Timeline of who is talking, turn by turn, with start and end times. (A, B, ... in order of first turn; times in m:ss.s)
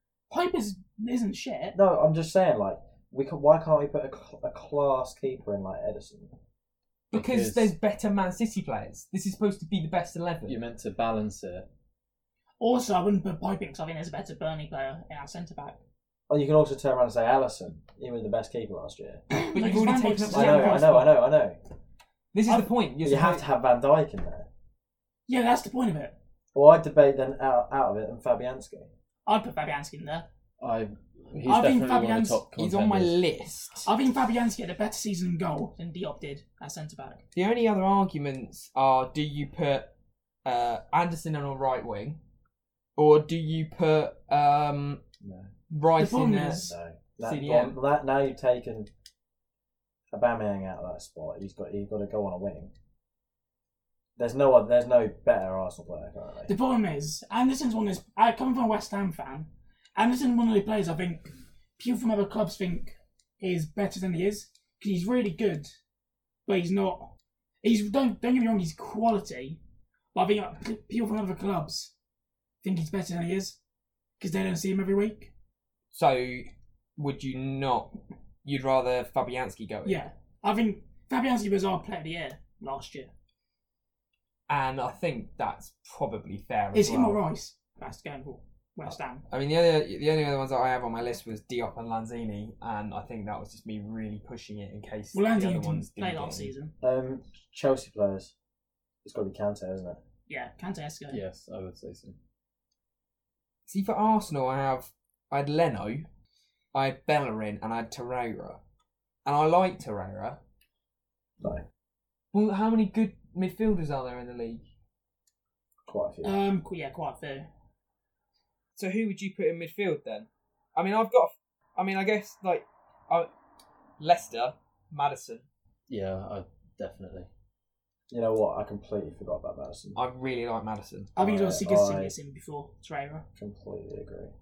0:00.3-0:01.8 A
0:01.7-0:06.3 B
0:07.1-0:10.6 C
0:07.1-0:07.7 D
0:10.5-0:11.7 D
0:12.6-0:15.8 A
0:16.3-0:19.2 B
0:19.3-0:21.1 A
0:19.5-0:21.2 C
0:20.3-0:21.6 B
0:22.3-0:23.4 C
0:23.0-0:24.5 B
0:25.3-0:26.1 A
0:26.5-0:28.9 B
0:29.2-0:30.3 A
0:30.6-0:33.2 D
0:31.4-0:32.4 A
0:32.6-0:33.9 C
0:33.8-0:37.2 A
0:37.3-0:39.9 C
0:40.4-0:42.2 C
0:43.0-0:45.0 C
0:45.2-0:45.5 B
0:45.7-0:46.7 C
0:46.0-0:46.7 A
0:46.6-0:48.9 B
0:47.2-0:47.8 C
0:50.1-0:52.7 B
0:54.2-0:56.5 B
0:56.4-1:05.7 A
1:06.4-1:07.1 A
1:07.6-1:09.6 A
1:10.1-1:11.9 A
1:12.6-1:13.6 A
1:14.2-1:15.3 A
1:15.9-1:20.0 C
1:19.8-1:23.1 A
1:24.5-1:27.2 C
1:26.7-1:29.2 A
1:28.8-1:36.5 C
1:35.1-1:36.7 A
1:36.8-1:38.3 B
1:39.0-1:40.0 B
1:40.3-1:41.2 A
1:41.1-1:42.2 D
1:43.7-1:46.1 C
1:46.7-1:48.6 C
1:49.2-1:50.4 C
1:52.3-1:54.6 C
1:55.9-1:56.4 B
1:56.2-1:57.5 A
1:58.8-2:03.3 C
2:04.0-2:05.4 C
2:05.9-2:07.3 D
2:08.1-2:10.0 B
2:09.9-2:11.1 C
2:11.2-2:13.2 A
2:11.2-2:12.1 B
2:13.3-2:14.3 B